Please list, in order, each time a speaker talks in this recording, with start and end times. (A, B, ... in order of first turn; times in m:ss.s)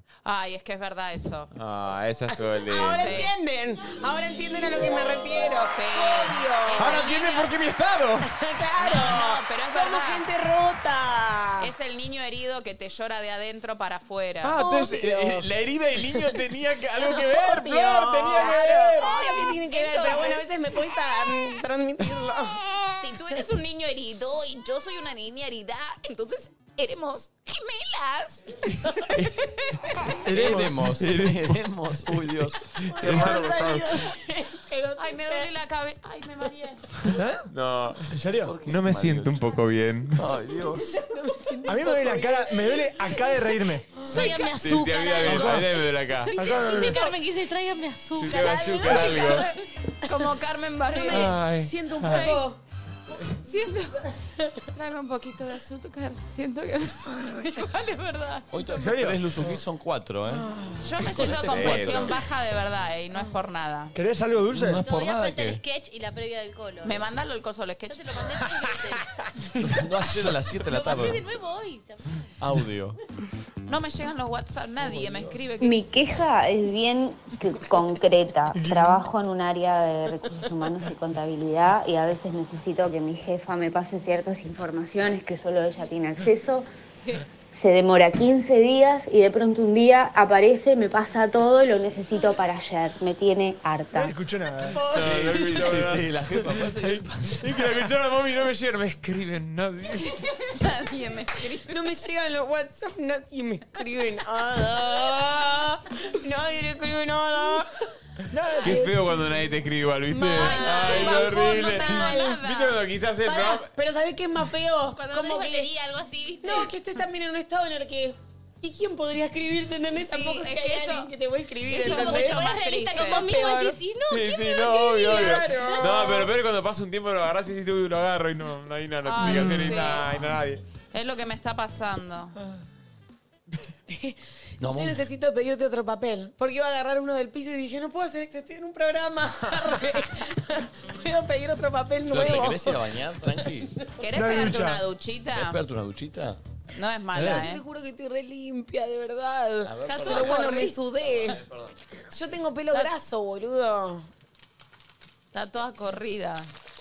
0:00.2-0:01.5 A
0:01.5-0:03.2 B
0:02.5-0:07.1 C
0:02.7-0:03.3 A
0:05.4-0:07.5 A
0:06.8-0:08.3 B
0:08.2-0:11.7 C
0:08.8-0:10.3 A
0:11.6-0:14.6 A
0:14.4-0:19.1 B
0:14.5-0:15.4 C
0:17.0-0:23.4 C
0:18.3-0:20.4 A
0:23.0-0:29.1 A
0:30.2-0:30.9 D
0:30.3-0:33.8 E
0:31.0-0:31.3 B
0:32.9-0:35.5 C
0:33.0-0:33.8 B
0:35.0-0:36.8 A
0:37.1-0:37.5 D
0:37.5-0:38.1 B
0:38.1-0:38.5 D
0:38.4-0:39.4 E
0:38.6-0:40.2 B
0:40.1-0:41.0 E
0:40.9-0:43.1 C
0:41.6-0:44.0 D
0:44.0-0:44.4 C
0:44.1-0:45.7 F
0:44.1-0:46.3 B
0:45.2-0:45.6 D
0:46.3-0:47.0 D
0:46.4-0:49.4 F
0:48.1-0:49.4 B
0:48.6-0:49.4 A
0:48.8-0:49.1 C
0:50.0-0:51.4 A
0:50.9-0:52.6 C
0:51.1-0:51.7 B
0:52.1-0:52.4 A
0:53.4-0:54.0 A
0:54.7-0:58.5 A
0:58.5-1:02.2 E
0:58.7-0:59.6 D
1:00.8-1:03.9 A
1:01.4-1:02.1 B
1:03.9-1:04.8 D
1:04.5-1:05.6 E
1:04.7-1:07.2 F
1:06.8-1:08.0 A
1:07.9-1:09.0 F
1:09.6-1:11.3 E
1:10.7-1:12.2 F
1:12.4-1:13.0 E
1:13.7-1:15.8 A
1:15.6-1:26.7 G
1:18.5-1:19.0 D
1:27.5-1:34.1 G
1:33.9-1:34.8 D
1:34.7-1:35.4 C
1:34.8-1:36.1 B
1:34.9-1:37.6 E
1:36.6-1:40.1 B
1:40.3-1:41.8 A
1:41.6-1:47.7 C
1:48.3-1:48.9 D
1:48.6-1:48.9 C
1:48.6-1:53.7 B
1:50.1-1:52.8 A
1:50.3-1:52.4 C
1:53.3-1:55.7 C
1:54.9-1:56.7 F
1:56.4-2:03.8 C
2:00.1-2:01.1 A
2:01.7-2:03.3 A
2:01.7-2:06.0 F
2:04.1-2:10.6 B
2:05.0-2:06.3 C
2:09.0-2:10.0 A
2:10.9-2:12.3 A
2:13.9-2:22.7 C
2:14.6-2:15.0 E
2:22.1-2:23.7 E
2:24.0-2:25.6 A
2:24.1-2:24.8 D
2:25.3-2:26.4 E
2:26.7-2:27.6 A
2:27.1-2:31.4 C
2:29.6-2:31.7 E
2:29.8-2:30.8 A
2:32.1-2:34.0 C
2:35.3-2:36.5 A